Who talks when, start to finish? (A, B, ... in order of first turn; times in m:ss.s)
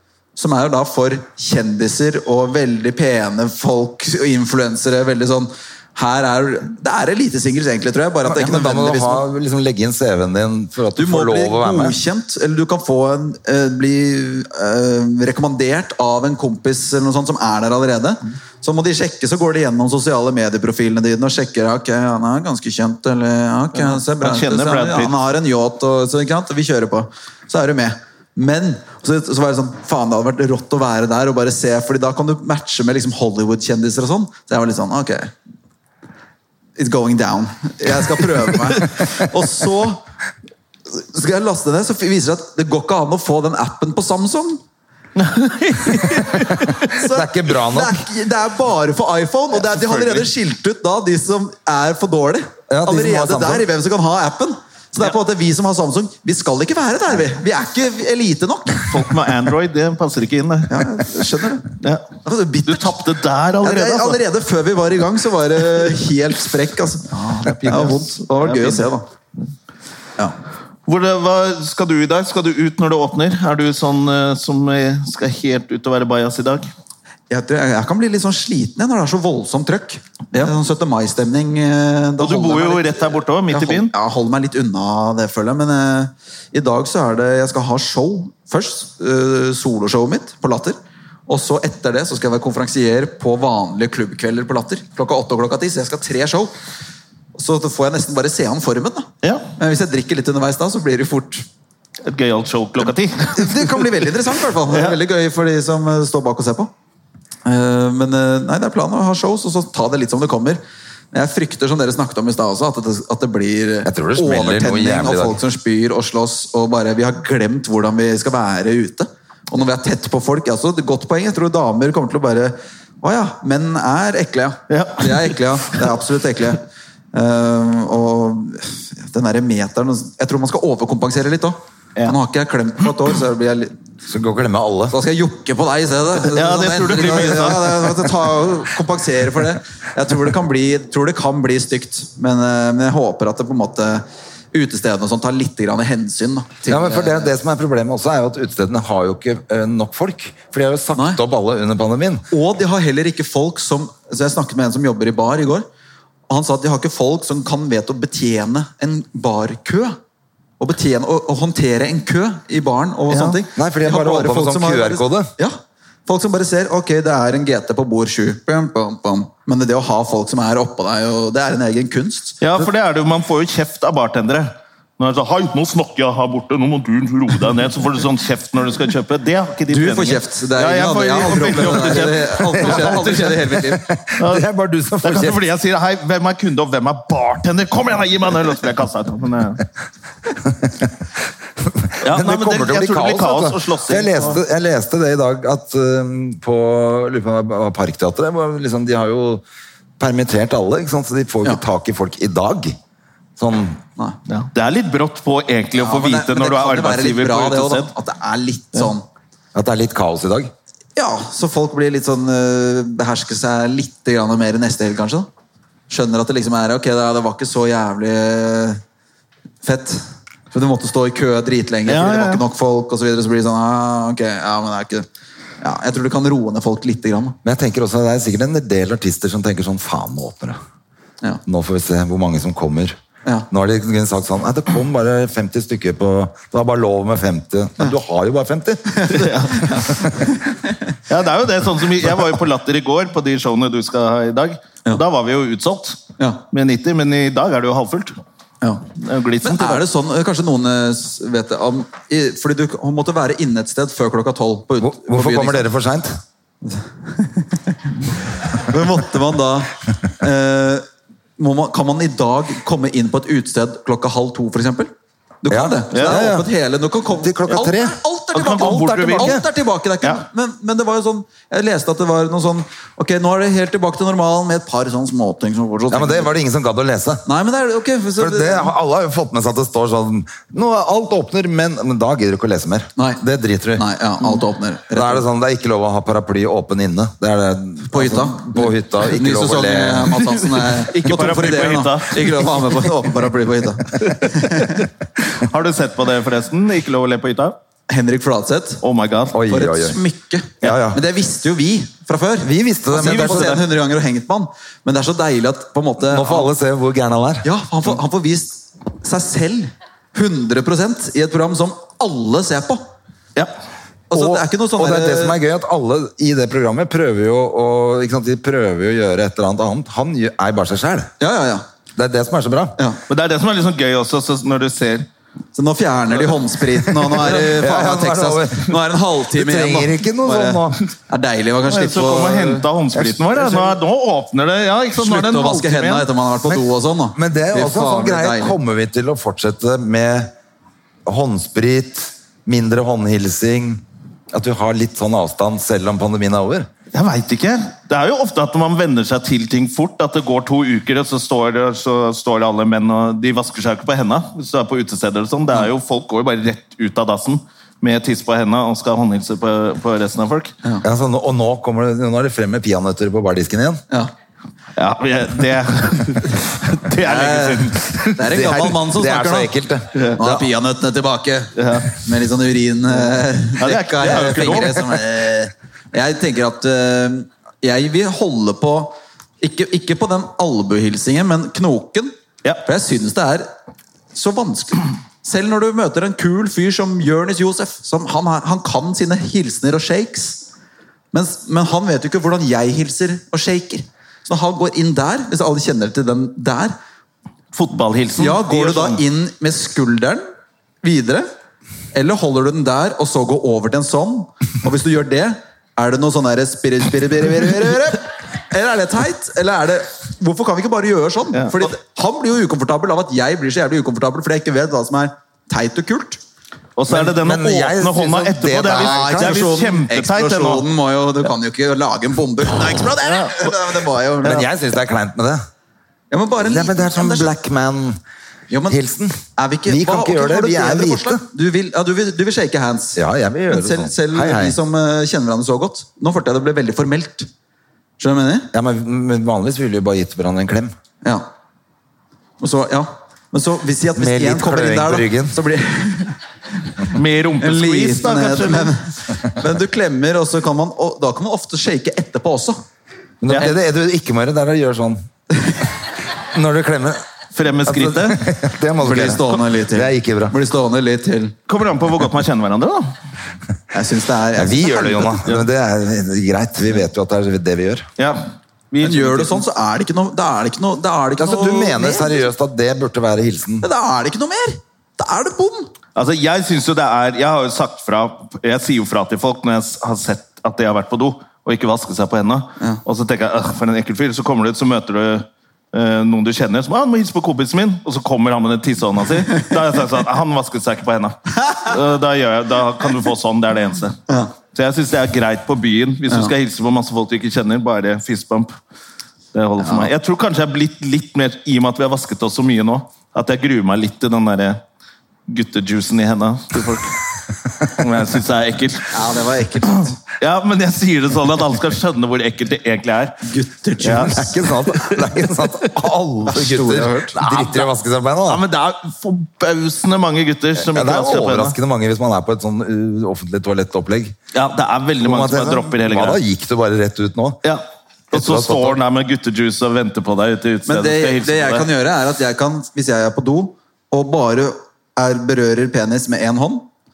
0:00.4-0:09.3 A
0:08.2-0:12.0 B
0:10.9-0:35.3 A
0:23.8-0:25.1 C
0:36.8-0:40.0 A
0:40.9-0:44.6 A
0:45.2-0:46.9 C
0:45.9-0:59.0 A
0:46.9-0:48.0 B
0:49.5-0:50.3 C
0:52.7-0:53.6 B
0:58.9-1:00.9 C
1:00.7-1:01.7 A
1:01.8-1:02.1 C
1:02.2-1:03.0 A
1:02.6-1:04.2 C
1:03.6-1:09.0 A
1:07.4-1:08.9 C
1:10.9-1:16.7 C
1:17.3-1:30.8 A
1:22.2-1:23.9 C
1:31.3-1:36.5 A
1:37.4-1:41.4 A
1:39.2-1:39.5 C
1:42.0-1:44.1 C
1:42.8-1:46.7 A
1:44.7-1:45.0 C
1:47.4-1:50.6 A
1:51.1-2:06.6 A
1:53.8-1:55.4 B
2:04.7-2:05.4 C
2:07.1-2:13.7 A
2:14.1-2:14.9 B
2:14.9-2:27.3 A
2:16.2-2:18.1 C
2:26.7-2:32.3 B
2:30.9-2:31.2 A
2:32.3-2:35.6 A
2:36.3-2:40.0 A
2:40.6-2:52.4 A
2:43.1-2:43.4 C
2:43.5-2:45.3 B
2:52.4-3:03.4 C
2:59.7-3:03.9 A
3:02.5-3:05.4 B
3:04.2-3:04.4 C
3:05.0-3:09.6 C
3:10.6-3:10.9 B
3:11.6-3:19.4 B
3:12.0-3:14.4 C
3:20.0-3:22.8 B
3:23.4-3:23.8 B
3:24.3-3:27.9 C
3:25.8-3:29.1 A
3:29.6-3:30.5 B
3:31.0-3:35.3 A
3:35.9-3:38.8 A
3:39.6-3:45.1 A
3:41.9-3:42.4 C
3:45.6-3:47.4 A
3:47.4-3:50.6 B
3:51.4-3:53.0 B
3:53.5-3:59.1 B
3:59.0-4:00.7 A
3:59.1-3:59.8 C
4:01.1-4:06.0 C
4:06.5-4:08.2 C
4:09.0-4:09.8 C
4:09.4-4:15.7 A
4:14.8-4:16.2 B
4:16.6-4:17.9 A
4:18.5-4:20.9 A
4:21.4-4:24.9 A
4:25.4-4:36.3 A
4:25.5-4:26.5 B
4:25.9-4:26.2 C
4:27.2-4:28.0 B
4:28.3-4:29.4 C
4:29.1-4:29.4 B
4:35.9-4:37.2 B
4:37.3-4:38.7 A
4:38.2-4:43.8 B
4:43.0-4:43.2 A
4:43.8-4:45.3 A
4:44.9-4:50.4 B
4:47.9-4:54.9 A
4:50.8-4:52.9 C
4:54.0-4:57.6 C
4:57.9-4:58.8 A
4:58.8-4:59.4 C
4:59.3-5:00.0 B
4:59.5-5:06.5 A
5:00.6-5:01.0 B
5:02.4-5:03.6 B
5:03.0-5:03.6 C
5:06.0-5:07.5 B
5:07.4-5:12.8 A
5:14.1-5:15.4 A
5:14.1-5:21.1 B
5:21.2-5:21.6 A
5:22.0-5:22.8 B
5:23.1-5:25.1 C
5:25.6-5:32.7 A
5:26.9-5:30.8 B
5:31.7-5:36.1 C
5:33.0-5:33.3 B
5:35.0-5:38.6 A
5:37.1-5:40.3 B
5:41.1-5:46.7 B
5:46.9-6:00.6 C
6:00.8-6:03.8 B
6:04.8-6:08.2 C
6:07.0-6:09.5 A
6:08.2-6:10.5 B
6:09.9-6:10.2 C
6:10.2-6:23.5 A
6:11.6-6:11.9 C
6:13.6-6:14.8 C
6:24.1-6:30.4 A
6:31.1-6:36.8 A
6:37.5-6:39.0 C
6:38.2-6:40.2 A
6:40.8-6:41.3 A
6:41.9-6:56.2 A
6:51.3-6:51.7 C
6:56.8-7:00.6 C
6:56.9-6:59.5 B
6:58.7-7:04.5 A
7:03.0-7:03.5 C
7:04.2-7:05.4 B
7:06.1-7:07.3 A
7:06.4-7:08.0 B
7:08.5-7:08.8 A
7:08.7-7:11.2 B
7:09.4-7:17.3 A
7:13.0-7:14.6 B
7:18.0-7:18.5 A
7:18.5-7:20.7 B
7:22.4-7:26.2 A
7:24.0-7:25.4 B
7:26.8-7:32.6 A
7:26.9-7:28.8 C
7:33.2-7:35.0 B
7:36.2-7:37.0 B
7:37.4-7:38.3 C
7:37.6-7:40.4 B
7:38.8-7:41.4 A
7:41.5-7:42.9 C
7:43.7-7:45.2 A
7:44.4-7:47.9 B
7:48.0-7:49.4 C
7:48.8-7:52.3 A
7:51.2-7:53.6 B
7:53.6-7:55.7 A
7:55.9-8:14.0 C
8:14.5-8:18.5 C
8:19.3-8:24.6 C
8:19.6-8:19.9 A
8:25.3-8:27.0 C
8:27.6-8:28.9 C
8:28.9-8:30.0 A
8:30.2-8:33.2 C
8:33.2-8:34.3 A
8:33.8-8:35.2 C
8:34.1-8:38.4 B
8:36.3-8:37.2 A
8:37.2-8:37.7 C
8:38.3-8:41.6 C
8:40.6-8:44.2 B
8:44.3-8:46.2 C
8:45.0-8:47.4 B
8:47.4-8:51.7 C
8:48.1-8:48.8 B
8:50.7-8:56.7 A